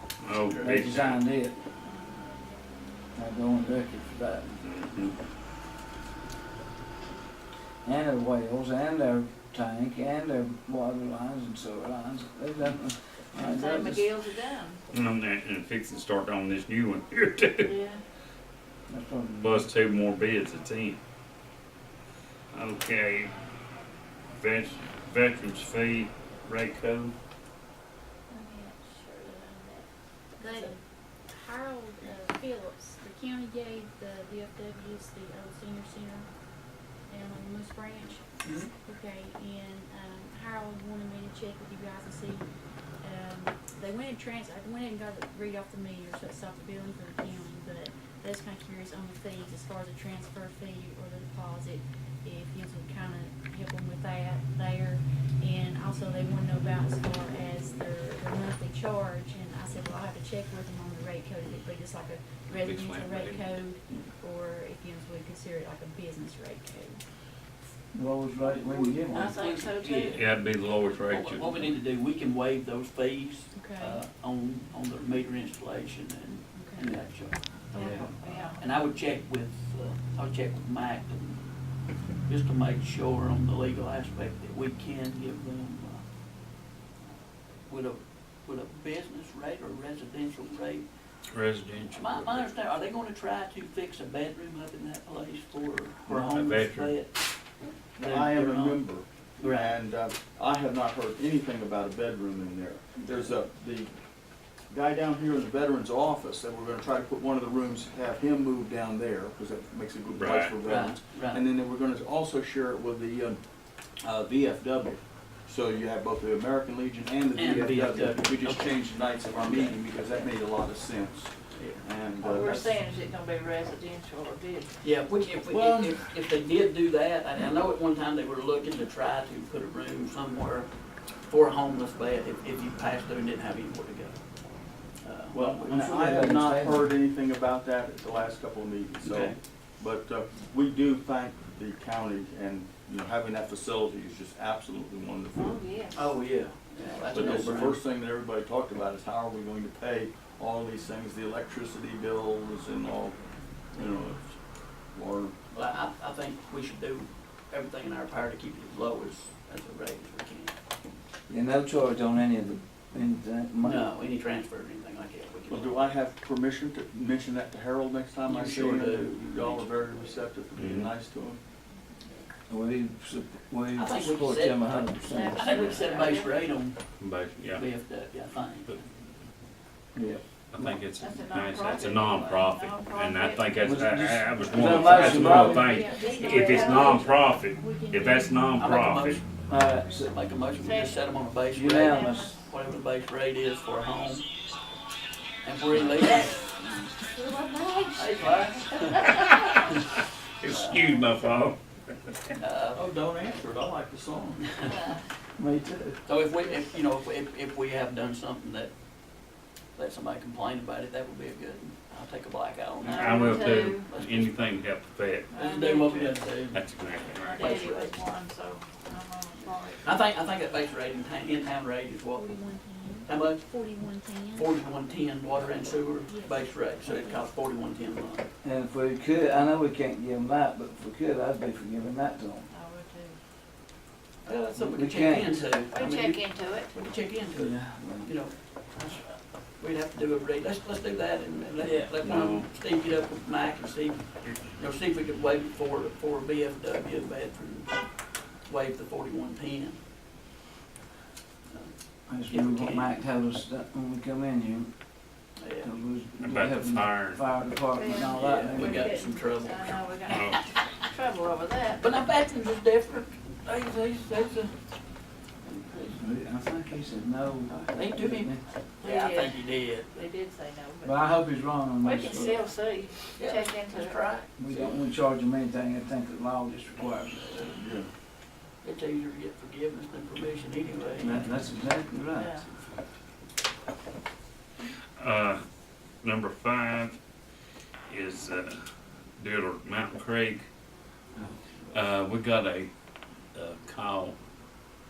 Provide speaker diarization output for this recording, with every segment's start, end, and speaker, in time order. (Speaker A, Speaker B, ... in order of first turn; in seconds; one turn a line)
Speaker A: 0.2-1.2
Speaker B: 0.5-1.1
Speaker C: 0.5-1.6
Speaker C: 3.1-4.6
Speaker A: 4.6-5.1
Speaker C: 7.8-14.1
Speaker D: 13.4-14.8
Speaker A: 14.9-17.8
Speaker D: 17.6-18.0
Speaker C: 18.9-19.7
Speaker A: 19.4-21.0
Speaker A: 22.5-23.3
Speaker A: 24.3-27.1
Speaker D: 28.3-29.9
Speaker E: 30.4-36.3
Speaker D: 30.4-30.7
Speaker E: 37.1-67.0
Speaker B: 38.4-38.7
Speaker A: 62.6-64.0
Speaker C: 67.9-69.3
Speaker D: 68.5-70.2
Speaker B: 69.1-70.2
Speaker A: 70.0-71.7
Speaker B: 71.0-81.4
Speaker E: 73.5-74.0
Speaker D: 77.7-78.6
Speaker A: 77.7-78.1
Speaker B: 82.2-86.0
Speaker B: 87.7-90.9
Speaker A: 91.3-92.5
Speaker B: 91.9-97.3
Speaker F: 96.1-96.3
Speaker A: 96.3-97.0
Speaker B: 98.0-99.8
Speaker F: 98.0-103.9
Speaker F: 104.7-113.4
Speaker A: 110.1-110.6
Speaker B: 110.6-111.4
Speaker F: 113.9-122.8
Speaker B: 117.3-120.2
Speaker B: 121.5-121.8
Speaker D: 122.2-124.7
Speaker B: 124.8-130.7
Speaker F: 125.5-126.0
Speaker B: 131.2-134.2
Speaker B: 135.0-135.9
Speaker F: 135.3-145.7
Speaker C: 135.7-136.9
Speaker B: 139.0-139.4
Speaker D: 145.3-146.1
Speaker B: 145.9-147.8
Speaker F: 147.1-153.2
Speaker F: 153.7-154.2
Speaker B: 153.7-154.2
Speaker F: 154.8-155.3
Speaker B: 155.5-160.5
Speaker C: 161.3-163.9
Speaker B: 163.6-165.9
Speaker F: 165.5-171.4
Speaker B: 168.2-170.2
Speaker A: 170.6-170.9
Speaker C: 172.5-175.6
Speaker B: 173.7-176.8
Speaker D: 175.1-176.4
Speaker A: 177.0-177.6
Speaker B: 177.6-178.8
Speaker C: 179.9-180.2
Speaker A: 180.5-189.2
Speaker D: 181.0-183.6
Speaker C: 183.6-185.8
Speaker D: 184.6-187.2
Speaker E: 185.7-188.6
Speaker B: 188.6-189.2
Speaker E: 189.2-190.4
Speaker C: 189.5-190.1
Speaker B: 190.1-194.3
Speaker D: 190.6-191.0
Speaker C: 191.5-192.4
Speaker D: 191.8-192.4
Speaker B: 195.4-196.4
Speaker C: 196.6-196.8
Speaker D: 197.1-198.2
Speaker B: 197.9-199.2
Speaker A: 199.0-199.8
Speaker A: 200.4-201.6
Speaker B: 200.5-200.8
Speaker B: 202.4-202.8
Speaker F: 202.7-204.6
Speaker D: 204.6-205.0
Speaker C: 205.4-206.0
Speaker B: 206.0-208.7
Speaker B: 209.7-214.4
Speaker A: 212.8-217.7
Speaker D: 212.8-213.9
Speaker D: 215.3-215.9
Speaker B: 215.3-218.0
Speaker D: 217.2-219.9
Speaker B: 219.8-222.3
Speaker E: 222.1-224.6
Speaker B: 223.1-223.4
Speaker B: 224.3-228.3
Speaker E: 225.6-227.3
Speaker C: 228.4-232.5
Speaker D: 232.5-233.2
Speaker B: 234.2-249.8
Speaker C: 234.6-235.5
Speaker D: 235.7-236.7
Speaker C: 237.3-238.1
Speaker A: 242.0-242.5
Speaker B: 251.5-253.0
Speaker C: 252.1-255.1
Speaker B: 255.4-255.7
Speaker C: 255.6-258.9
Speaker A: 256.2-257.2
Speaker D: 257.7-261.8
Speaker B: 257.9-260.5
Speaker A: 260.1-260.4
Speaker B: 261.7-264.6
Speaker B: 265.4-266.0
Speaker C: 265.9-268.4
Speaker B: 267.5-269.9
Speaker D: 268.8-269.4
Speaker D: 269.9-271.2
Speaker C: 270.8-272.5
Speaker D: 271.8-274.1
Speaker B: 273.1-274.2
Speaker C: 274.4-277.4
Speaker F: 274.5-274.7
Speaker B: 277.2-277.5
Speaker F: 277.4-277.9
Speaker B: 278.6-281.4
Speaker C: 281.0-282.4
Speaker D: 282.1-282.4
Speaker B: 282.2-282.6
Speaker A: 285.0-285.4
Speaker A: 286.0-287.0
Speaker A: 287.9-288.6
Speaker A: 289.2-290.4
Speaker A: 291.7-292.7
Speaker A: 293.3-294.2